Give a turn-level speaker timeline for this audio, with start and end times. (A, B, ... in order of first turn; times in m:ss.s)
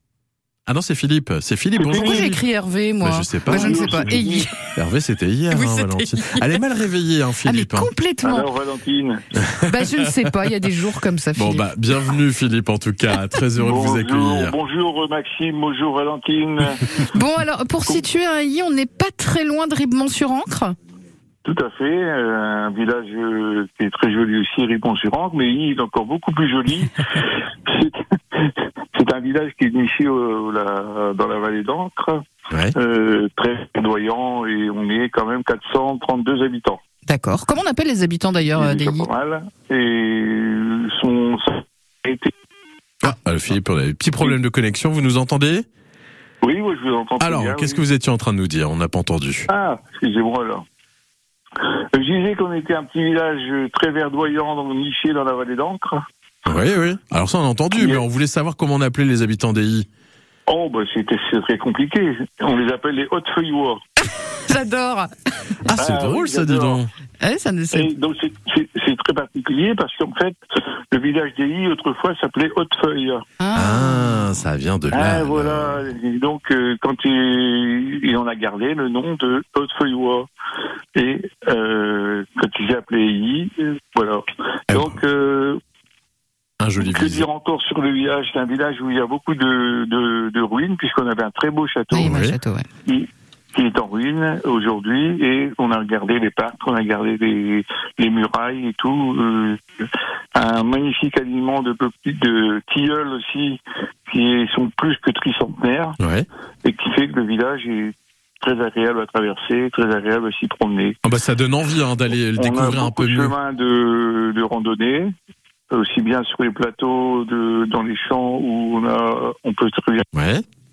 0:00.7-0:02.4 A
0:01.8-0:02.3 B
0:01.9-0:04.6 C
0:03.0-0:04.2 A
0:03.5-0:04.5 B
0:04.7-0:07.9 A
0:05.5-0:06.6 C
0:07.4-0:08.5 C
0:08.2-0:09.2 B
0:09.4-0:10.5 A
0:09.6-0:12.1 C
0:11.4-0:14.5 A
0:13.6-0:16.8 B
0:17.0-0:20.7 C
0:21.4-0:32.2 B
0:32.7-0:36.8 B
0:37.1-0:39.1 C
0:38.5-0:42.3 B
0:43.0-0:45.6 A
0:46.4-0:47.8 B
0:47.2-0:49.5 A
0:49.5-0:50.6 B
0:51.9-0:56.0 B
0:56.4-0:59.9 A
0:57.7-0:58.0 B
1:00.5-1:03.8 B
1:04.4-1:05.1 C
1:05.6-1:06.9 A
1:05.7-1:06.8 B
1:07.2-1:07.9 C
1:07.7-1:10.4 B
1:10.9-1:13.2 B
1:13.4-1:14.3 C
1:13.5-1:15.9 A
1:14.9-1:20.3 B
1:20.9-1:25.6 B
1:24.7-1:25.0 A
1:26.6-1:27.2 A
1:26.8-1:32.2 B
1:31.9-1:32.6 C
1:32.0-1:32.4 A
1:32.8-1:46.0 B
1:46.0-1:46.2 A
1:46.6-1:51.0 B
1:51.0-1:53.3 A
1:52.3-1:55.1 B
1:55.7-2:00.0 B
2:00.1-2:00.4 A